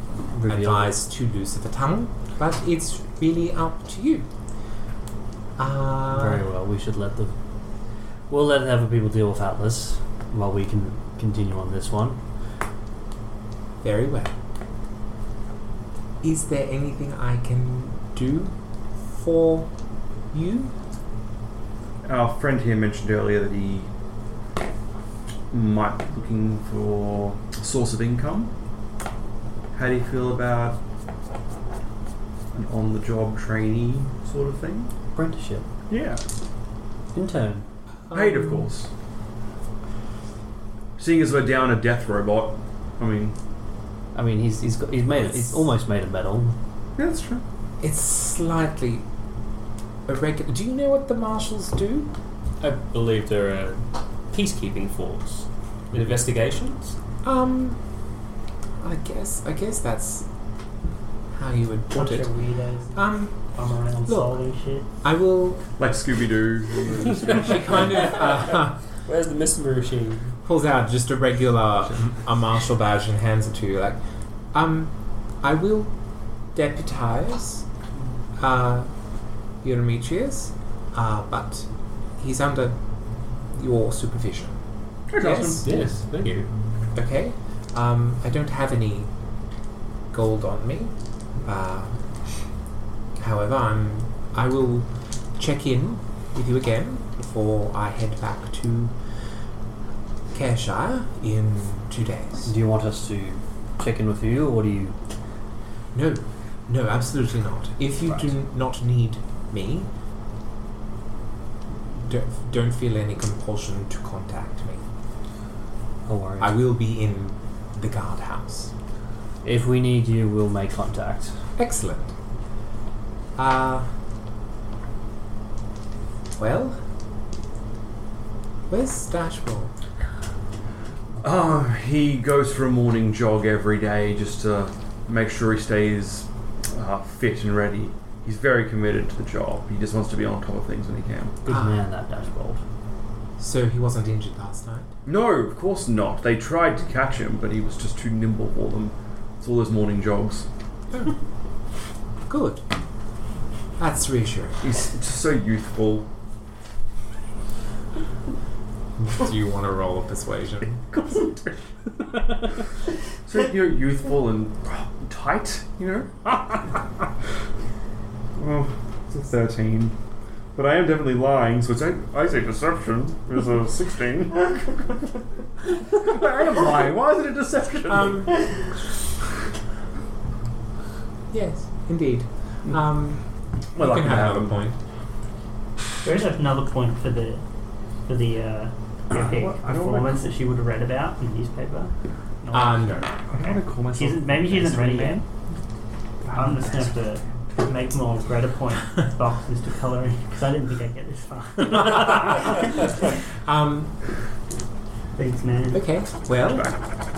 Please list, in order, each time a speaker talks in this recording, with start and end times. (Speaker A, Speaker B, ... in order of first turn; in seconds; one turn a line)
Speaker A: 0.3-1.0
Speaker B: 0.5-4.3
Speaker B: 5.6-6.4
Speaker A: 6.1-7.4
Speaker A: 8.3-12.2
Speaker B: 13.8-14.3
Speaker B: 16.2-19.7
Speaker B: 20.3-20.7
Speaker C: 22.1-23.9
Speaker C: 25.5-28.5
Speaker C: 29.7-30.8
Speaker C: 32.5-34.9
Speaker A: 35.1-35.7
Speaker C: 35.9-36.2
Speaker A: 37.1-37.7
Speaker B: 38.1-38.7
Speaker C: 38.1-38.9
Speaker C: 41.0-43.4
Speaker A: 44.1-46.6
Speaker B: 45.2-45.6
Speaker C: 47.0-47.4
Speaker B: 47.8-49.1
Speaker B: 50.1-52.1
Speaker D: 52.6-57.0
Speaker B: 57.2-57.8
Speaker B: 58.8-60.3
Speaker B: 61.3-62.3
Speaker E: 61.9-64.9
Speaker B: 62.9-63.5
Speaker B: 64.1-64.4
Speaker B: 65.0-65.7
Speaker C: 65.8-68.0
Speaker B: 67.4-68.8
Speaker D: 68.0-70.4
Speaker B: 70.4-74.0
Speaker B: 74.5-75.9
Speaker B: 76.5-77.7
Speaker B: 78.4-78.9
Speaker B: 79.6-82.8
Speaker B: 83.5-84.6
Speaker C: 85.1-85.7
Speaker B: 85.2-85.7
Speaker D: 85.5-86.5
Speaker B: 86.9-89.1
Speaker B: 90.1-90.9
Speaker B: 91.4-92.0
Speaker B: 93.2-98.9
Speaker B: 100.3-102.5
Speaker A: 102.4-105.0
Speaker B: 105.9-109.9
Speaker B: 112.0-114.8
Speaker A: 116.1-116.5
Speaker B: 116.4-118.7
Speaker A: 119.4-121.3
Speaker B: 121.6-122.1
Speaker B: 123.4-123.9
Speaker B: 126.4-126.8
Speaker B: 128.7-129.7
Speaker C: 131.2-141.4
Speaker A: 141.4-142.6
Speaker B: 141.5-141.8
Speaker B: 143.4-144.9
Speaker C: 145.1-150.5
Speaker B: 152.3-152.6
Speaker B: 153.8-154.6
Speaker C: 154.6-156.1
Speaker B: 159.1-161.0
Speaker C: 163.3-166.9
Speaker C: 168.4-169.9
Speaker C: 170.6-174.8
Speaker C: 175.9-178.3
Speaker B: 177.9-178.5
Speaker B: 181.3-184.8
Speaker C: 183.7-184.7
Speaker E: 186.0-187.4
Speaker E: 188.1-195.2
Speaker C: 189.1-190.2
Speaker B: 192.5-193.1
Speaker C: 193.3-195.2
Speaker C: 196.2-197.0
Speaker E: 196.3-202.9
Speaker B: 201.7-202.5
Speaker B: 203.4-204.0
Speaker E: 205.2-205.8
Speaker B: 205.7-206.8